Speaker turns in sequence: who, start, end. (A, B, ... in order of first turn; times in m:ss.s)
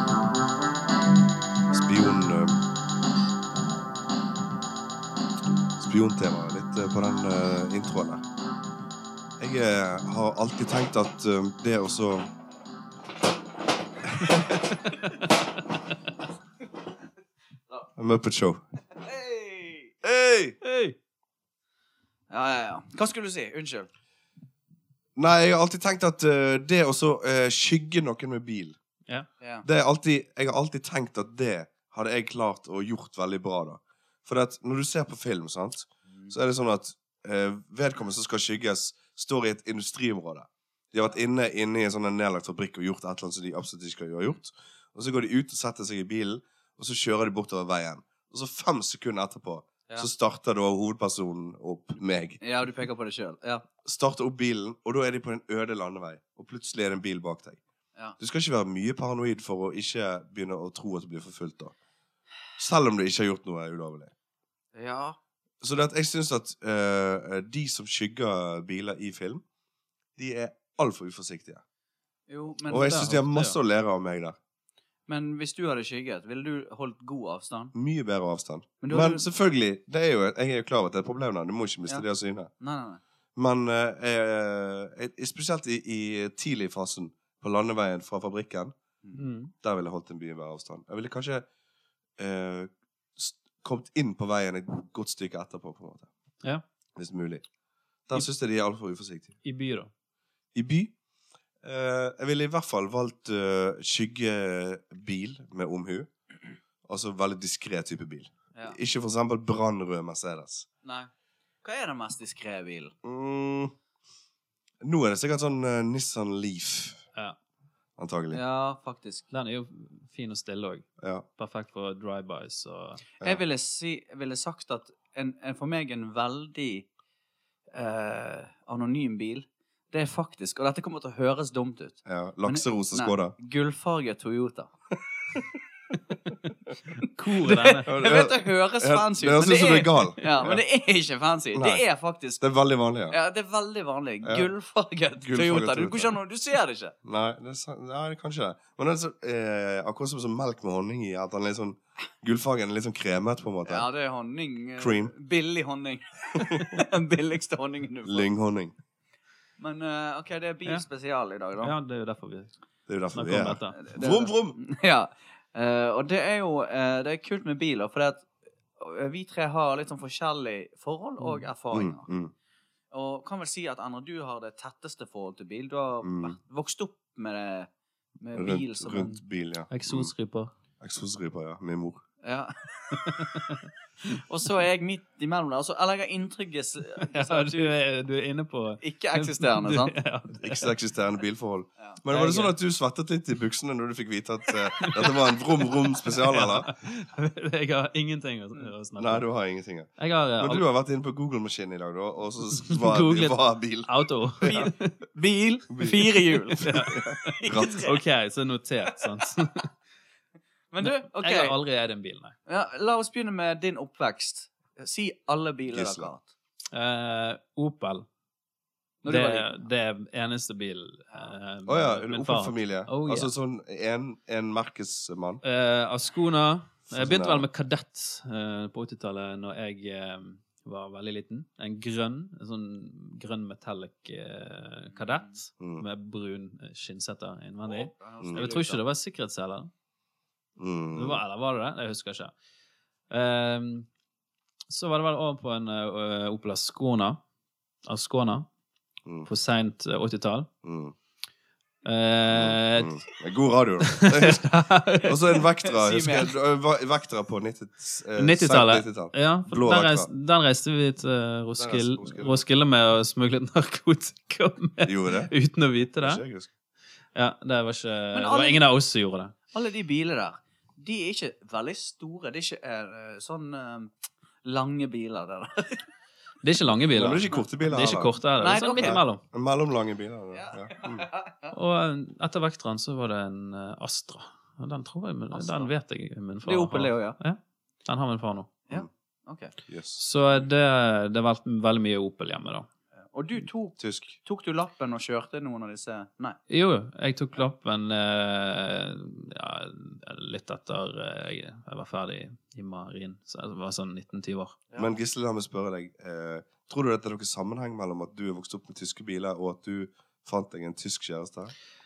0:01.7-0:02.6 A
0:03.5-0:03.9 A
0:05.8-0:08.2 A
0:09.4-0:12.3 A
0:14.1-0:14.6 A
0:14.9-0:15.1 B
0:18.0-0:18.6 A
0:18.9-0:19.9 C
0:20.0-0:20.6 A
0:20.6-0:20.9 B
0:22.3-0:23.9 C
0:25.2-0:28.8 A
0:29.4-0:29.6 C
0:29.6-0:52.4 A
0:52.4-0:53.6 C
0:53.8-0:57.6 A
0:58.2-1:01.7 A
1:02.6-1:04.1 A
1:04.7-1:05.2 C
1:05.6-1:09.4 A
1:10.2-1:11.6 A
1:12.3-1:13.1 C
1:12.7-1:14.4 A
1:12.7-1:13.6 B
1:15.1-1:17.7 C
1:17.7-1:22.5 A
1:18.8-1:19.2 C
1:22.6-1:23.0 C
1:23.4-1:28.7 A
1:29.2-1:29.5 B
1:29.6-1:31.4 A
1:32.2-1:36.1 A
1:37.0-1:37.4 A
1:38.1-1:39.3 A
1:39.4-1:39.9 B
1:40.5-1:40.9 A
1:41.6-1:46.1 A
1:46.8-1:50.7 A
1:50.8-1:51.1 C
1:51.6-1:52.9 C
1:53.0-1:53.7 A
1:54.8-1:57.0 A
1:58.0-1:58.4 A
1:58.3-1:59.3 C
1:59.3-2:00.9 B
2:01.0-2:01.2 A
2:01.4-2:03.0 B
2:03.2-2:06.9 C
2:07.7-2:14.7 C
2:12.0-2:13.3 A
2:17.0-2:22.4 C
2:17.0-2:17.9 B
2:17.8-2:20.6 A
2:21.5-2:21.8 A
2:22.4-2:23.2 A
2:23.1-2:26.9 C
2:24.2-2:24.5 A
2:25.2-2:26.1 A
2:27.0-2:33.9 A
2:33.6-2:38.3 C
2:34.8-2:35.1 A
2:38.0-2:38.7 A
2:39.6-2:41.7 C
2:41.6-2:42.5 B
2:42.9-2:44.6 A
2:43.1-2:43.8 B
2:43.7-2:48.3 C
2:48.8-2:52.1 C
2:51.7-2:52.3 A
2:52.9-2:57.7 C
2:56.0-2:56.4 A
2:58.2-2:59.2 C
2:58.3-3:00.1 A
2:59.7-3:00.5 B
3:00.8-3:02.0 A
3:02.2-3:03.6 C
3:02.9-3:03.6 B
3:04.1-3:07.7 C
3:07.0-3:10.7 B
3:08.8-3:10.0 C
3:10.4-3:16.7 A
3:12.1-3:12.5 B
3:14.8-3:15.2 B
3:16.1-3:19.2 B
3:19.0-3:24.6 A
3:20.0-3:20.6 B
3:22.6-3:24.9 B
3:24.4-3:28.0 C
3:25.7-3:27.7 A
3:26.6-3:29.7 B
3:30.7-3:31.6 C
3:30.8-3:32.4 B
3:32.5-3:36.3 C
3:35.7-3:36.1 A
3:36.7-3:38.0 B
3:39.0-3:39.6 C
3:39.1-3:43.3 B
3:41.6-3:45.4 A
3:45.4-3:59.7 B
3:46.9-3:47.4 A
3:54.9-3:55.4 C
3:55.6-3:55.8 A
3:57.6-3:58.8 C
3:58.2-3:58.5 A
4:00.6-4:01.2 A
4:00.9-4:02.3 B
4:03.1-4:03.9 B
4:04.7-4:07.2 B
4:07.8-4:08.5 B
4:09.0-4:09.3 A
4:09.3-4:10.5 B
4:10.6-4:10.9 A
4:11.8-4:13.0 B
4:12.3-4:14.5 A
4:13.8-4:15.4 B
4:15.0-4:20.1 A
4:15.6-4:16.3 C
4:18.2-4:26.2 B
4:21.6-4:22.4 A
4:24.8-4:25.3 A
4:26.0-4:26.5 A
4:27.1-4:29.3 B
4:28.1-4:28.6 C
4:29.5-4:33.9 C
4:34.4-4:35.8 C
4:36.4-4:39.2 B
4:36.9-4:41.1 A
4:38.4-4:39.0 C
4:40.3-4:41.5 C
4:41.5-4:48.5 B
4:45.3-4:45.7 C
4:46.4-4:47.2 C
4:48.7-4:49.5 C
4:49.7-4:50.0 A
4:50.0-4:52.7 B
4:53.0-4:56.4 C
4:53.8-4:54.2 A
4:56.5-5:04.6 B
5:04.8-5:11.5 A